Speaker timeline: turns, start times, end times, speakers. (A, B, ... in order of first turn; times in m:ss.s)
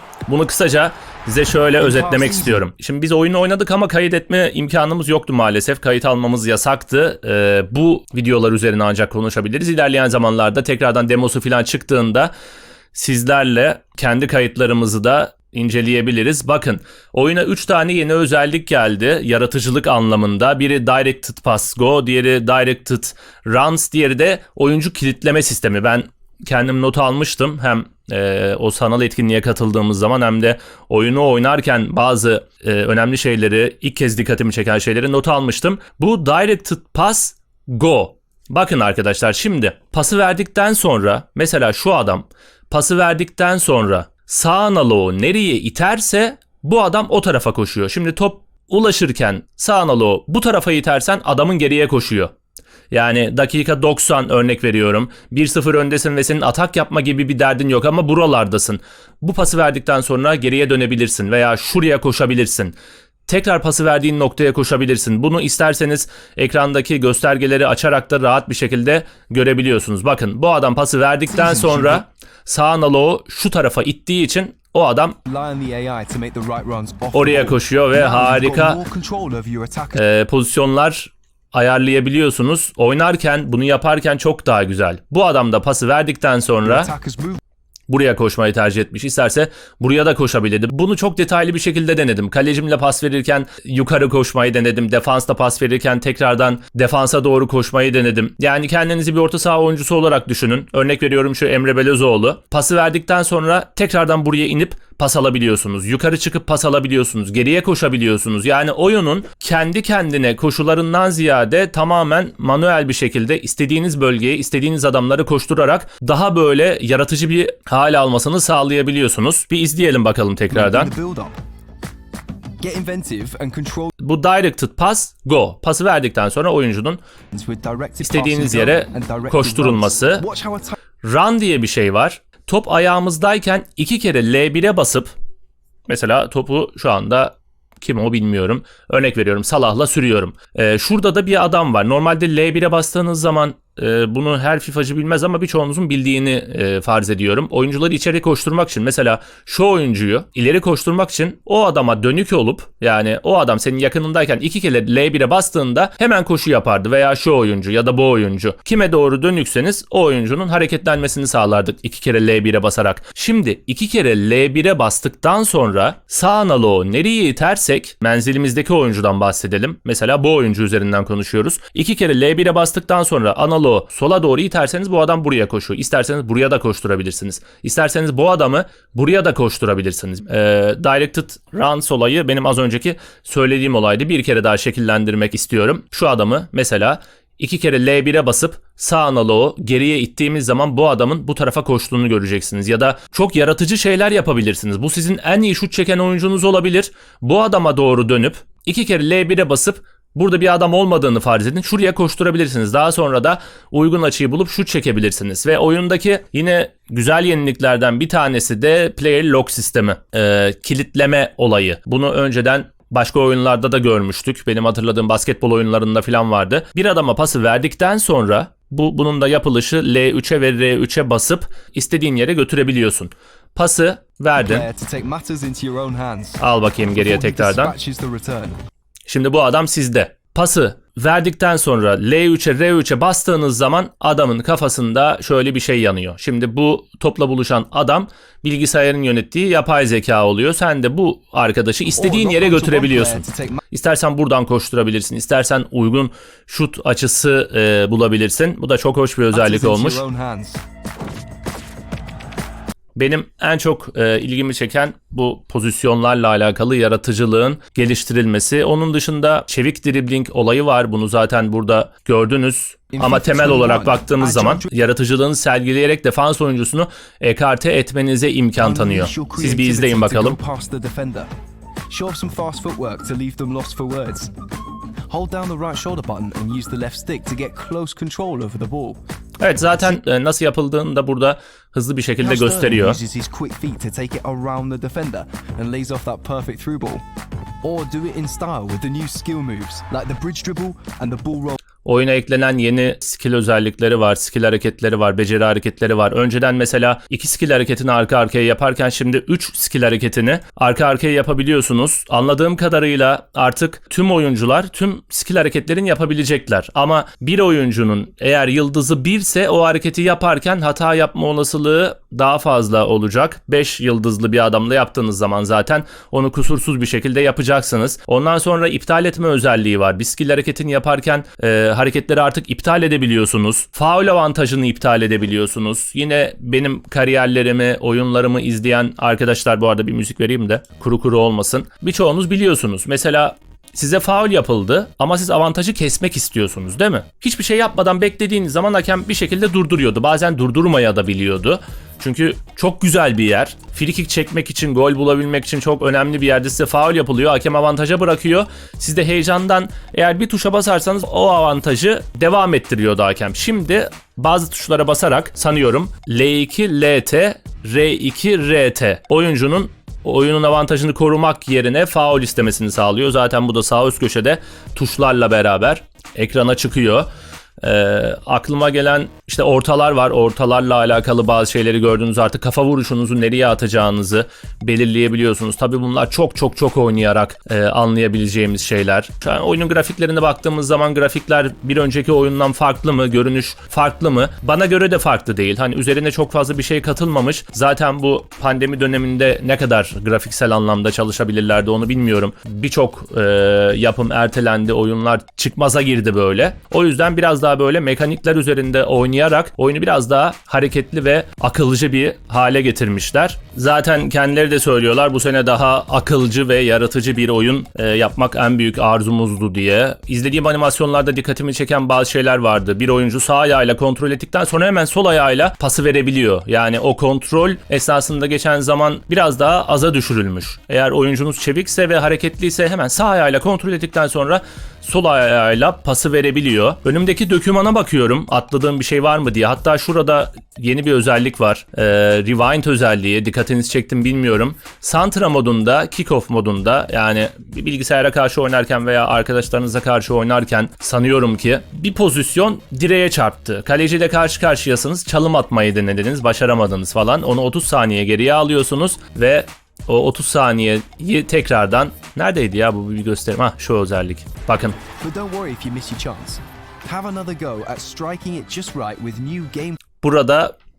0:00.3-0:12.3 A
0:01.8-0:02.6 B
0:12.9-0:52.3 A
0:52.9-1:02.8 A
1:03.3-1:15.2 A
1:11.3-1:12.0 B
1:15.3-1:20.0 B
1:17.1-1:18.8 A
1:20.0-1:26.9 A
1:26.6-1:27.4 B
1:27.9-2:00.9 A
2:00.5-2:01.4 B
2:02.6-2:03.9 B
2:04.0-2:07.0 A
2:07.3-2:10.8 B
2:08.0-2:10.2 A
2:11.0-2:15.1 A
2:15.9-3:44.7 A
3:44.4-3:46.4 B
3:46.4-3:47.7 A
3:46.9-3:48.6 B
3:49.1-4:10.0 A
4:02.0-4:03.6 B
4:09.3-4:10.6 B
4:13.0-4:30.4 A
4:22.9-4:24.8 B
4:28.6-4:31.3 B
4:31.9-4:34.3 B
4:35.1-4:39.0 B
4:39.4-4:43.0 A
4:42.2-4:47.0 B
4:47.6-4:51.6 B
4:51.8-6:07.1 A
6:07.6-7:34.8 A
7:35.0-7:39.8 B
7:40.0-7:40.5 A